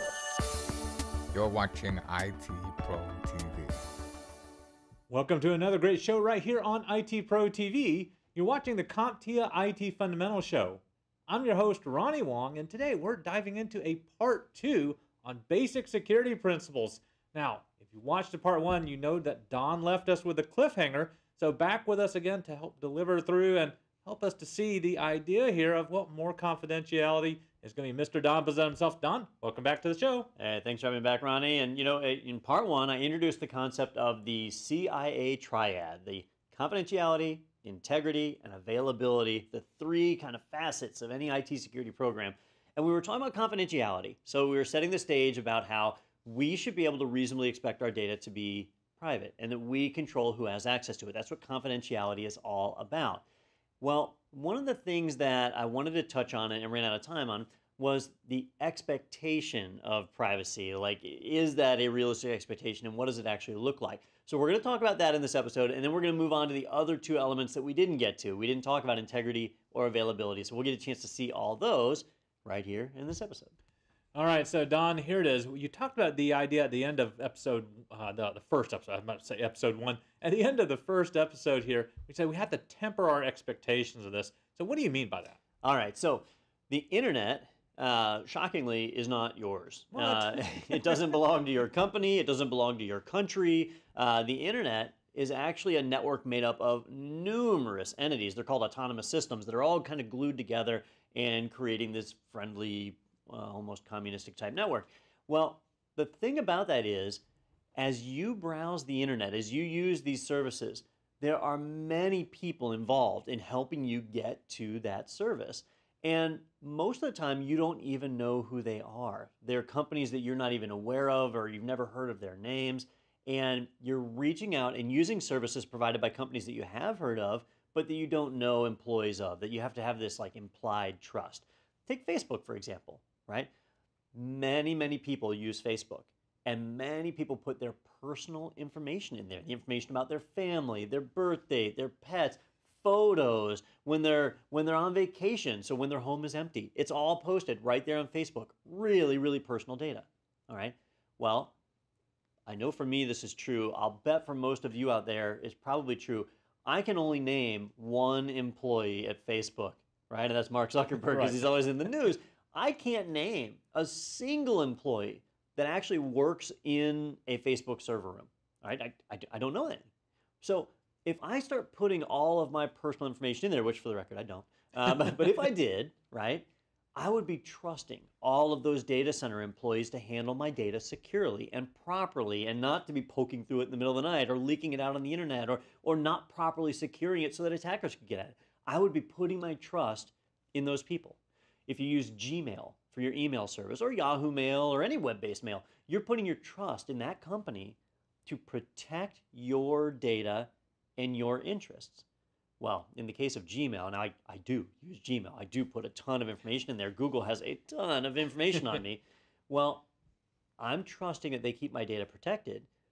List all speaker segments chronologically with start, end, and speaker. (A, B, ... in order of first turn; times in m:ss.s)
0:01.3-0:03.8 A
0:05.1-0:30.3 B
0:30.4-0:53.2 C
0:53.8-1:13.5 C
1:14.1-1:25.4 B
1:25.6-1:47.2 C
1:29.9-1:31.0 B
1:47.8-2:13.5 C
2:14.1-2:31.5 C
2:32.4-2:49.9 C
2:41.1-2:41.4 B
2:50.4-3:22.0 C
3:22.6-3:29.9 C
3:30.6-3:32.7 C